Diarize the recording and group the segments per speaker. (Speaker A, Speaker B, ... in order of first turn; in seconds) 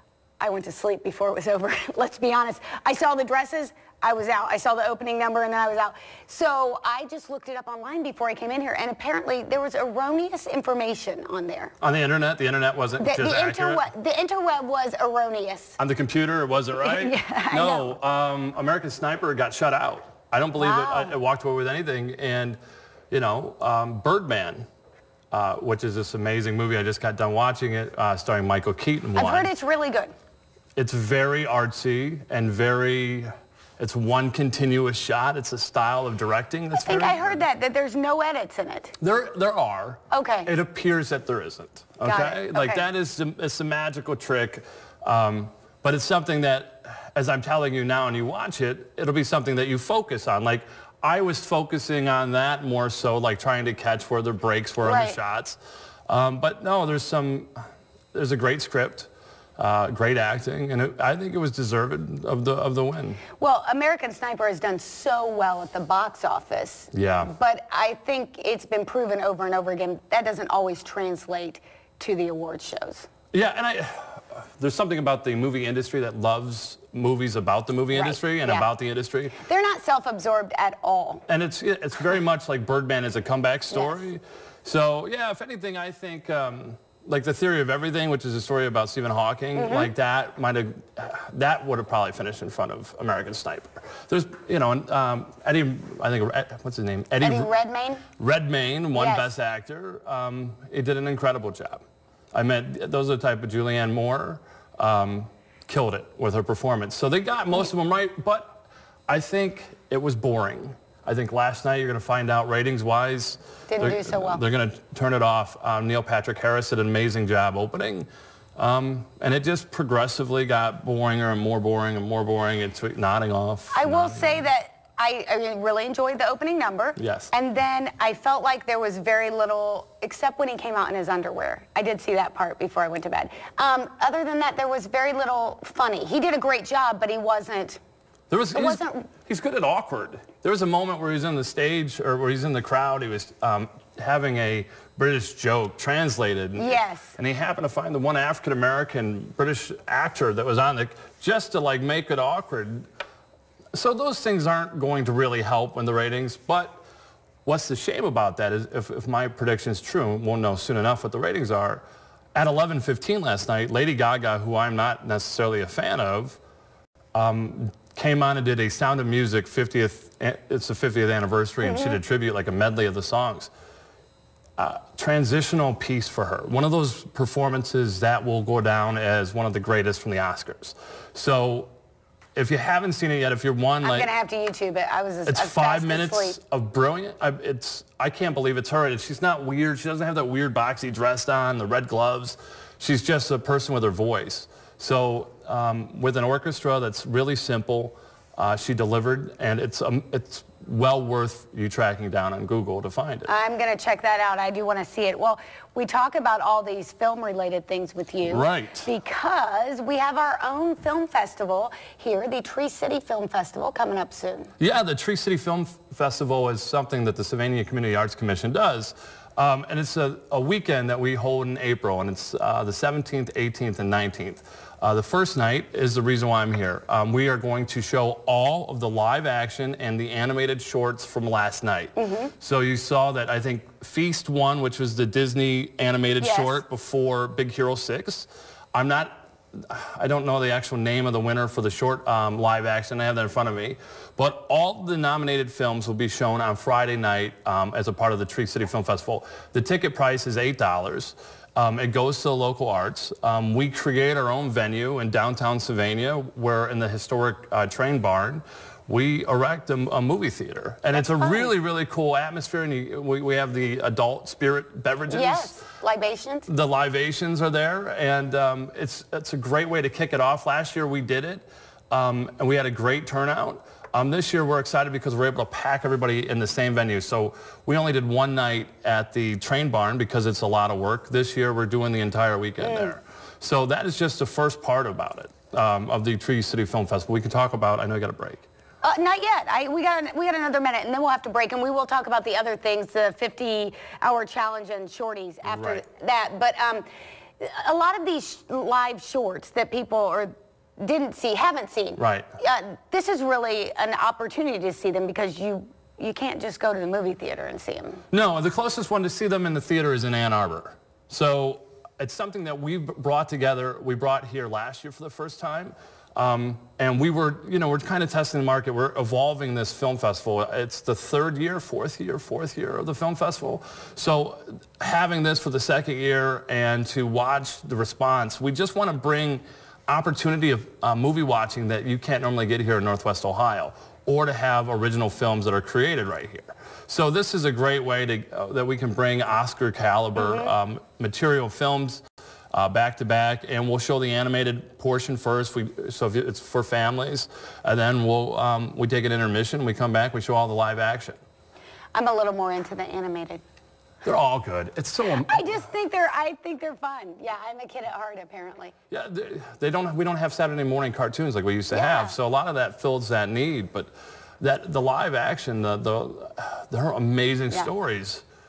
Speaker A: 0.4-11.7, 13.0-15.8, 16.8-17.9, 20.6-21.2, 29.2-30.1, 36.7-39.0, 40.1-40.5, 42.0-42.9, 54.8-55.2, 63.4-73.1, 77.9-78.7, 79.4-81.2, 83.7-84.0, 89.6-89.9, 97.2-98.0, 98.9-99.3, 113.7-114.4, 123.7-137.8, 138.5-139.1, 146.6-147.2, 171.6-172.0, 183.8-186.4, 203.3-214.5, 232.0-232.3, 236.2-236.6, 260.9-261.5, 265.1-266.5, 282.6-282.9, 288.8-296.9, 297.4-308.0, 340.1-340.5, 351.9-353.4, 355.1-358.7, 361.7-362.2
Speaker B: 11.8-13.8, 15.8-22.6, 23.1-24.7, 25.3-29.5, 30.8-37.4, 39.0-57.5, 58.1-63.2, 66.9-67.3, 73.3-79.4, 81.3-97.5, 98.2-124.5, 127.0-127.3, 138.3-152.9, 153.7-156.8, 157.4-161.8, 162.3-166.4, 167.2-173.5, 174.6-181.7, 182.4-184.1, 185.3-203.3, 208.3-208.9, 214.6-265.6, 266.5-288.5, 295.4-295.8, 302.0-302.3, 308.1-342.0, 342.5-351.2, 354.0-355.5, 358.9-368.2